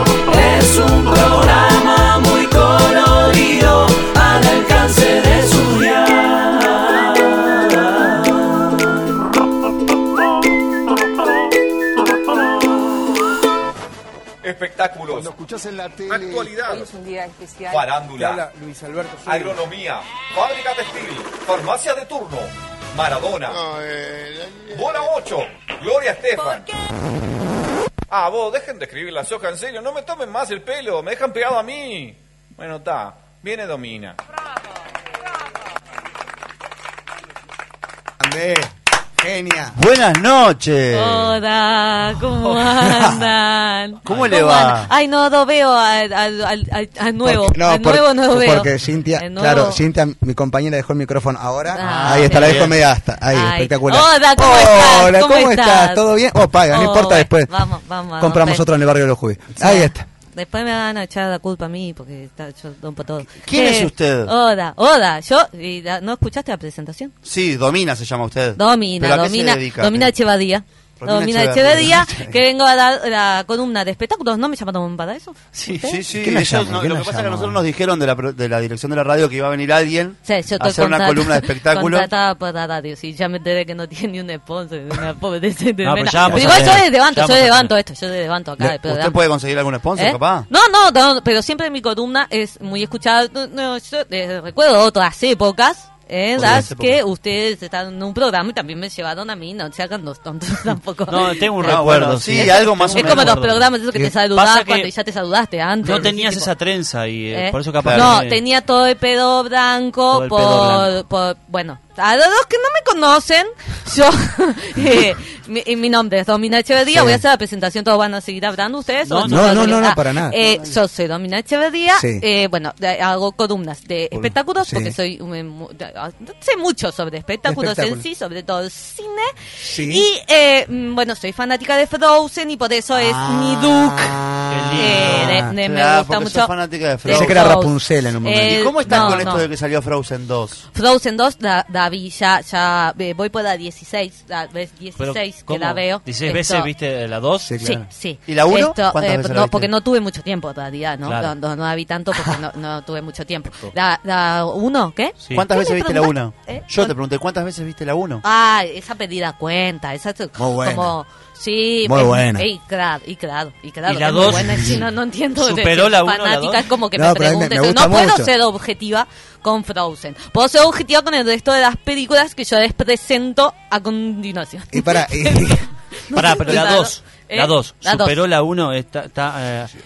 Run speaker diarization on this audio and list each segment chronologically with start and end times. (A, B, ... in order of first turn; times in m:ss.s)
0:00.3-0:06.4 A
0:14.4-0:15.4 B
0:15.4-0:16.4 C
0:16.0-0:16.9 B
0:17.6-0:18.4 B
0:18.8-0:19.5 C
0:19.2-0:23.7 B
0:23.9-0:24.6 C
0:24.7-0:26.6 B
0:28.1-0:34.2 B
0:38.2-0:39.8 D
0:39.7-0:41.4 E
0:40.9-0:49.8 F
0:42.4-0:42.8 A
0:44.0-0:44.9 E
0:47.2-0:57.5 D
0:51.7-0:52.8 F
0:51.8-0:52.5 A
0:52.3-0:52.8 E
0:53.3-0:56.0 F
0:56.7-0:58.7 F
0:58.2-1:00.0 D
0:59.6-1:07.1 F
1:03.4-1:04.3 E
1:07.2-1:10.1 E
1:08.6-1:16.0 F
1:11.0-1:12.4 E
1:15.7-1:22.1 E
1:16.1-1:17.6 D
1:20.2-1:29.2 F
1:25.8-1:27.7 A
1:26.3-1:26.8 D
1:28.9-1:30.4 E
1:29.9-1:41.8 F
1:36.4-1:37.0 E
1:41.1-1:44.9 A
1:41.6-1:43.3 E
1:42.3-1:46.5 F
1:45.8-1:48.4 A
1:47.3-2:19.5 F
1:47.8-1:48.1 E
1:50.1-1:50.9 A
1:56.8-1:57.2 D
1:59.0-1:59.9 A
1:59.2-2:00.5 D
2:01.9-2:02.2 D
2:04.1-2:04.9 D
2:07.4-2:08.0 D
2:09.6-2:10.1 D
2:14.5-2:15.5 A
2:15.0-2:15.5 D
2:15.6-2:17.6 E
2:17.1-2:19.2 D
2:18.4-2:20.6 E
2:20.7-2:26.7 F
2:25.0-2:27.6 A
2:27.4-2:27.8 D
2:27.6-2:36.9 F
2:28.2-2:29.7 E
2:31.0-2:31.3 A
2:35.2-2:35.4 A
2:35.3-2:38.2 E
2:38.2-2:58.2 F
2:40.4-2:40.9 D
2:41.8-2:42.4 D
2:43.8-2:46.6 A
2:44.2-2:44.8 D
2:46.9-2:48.3 D
2:54.7-2:56.7 D
2:56.1-2:59.7 A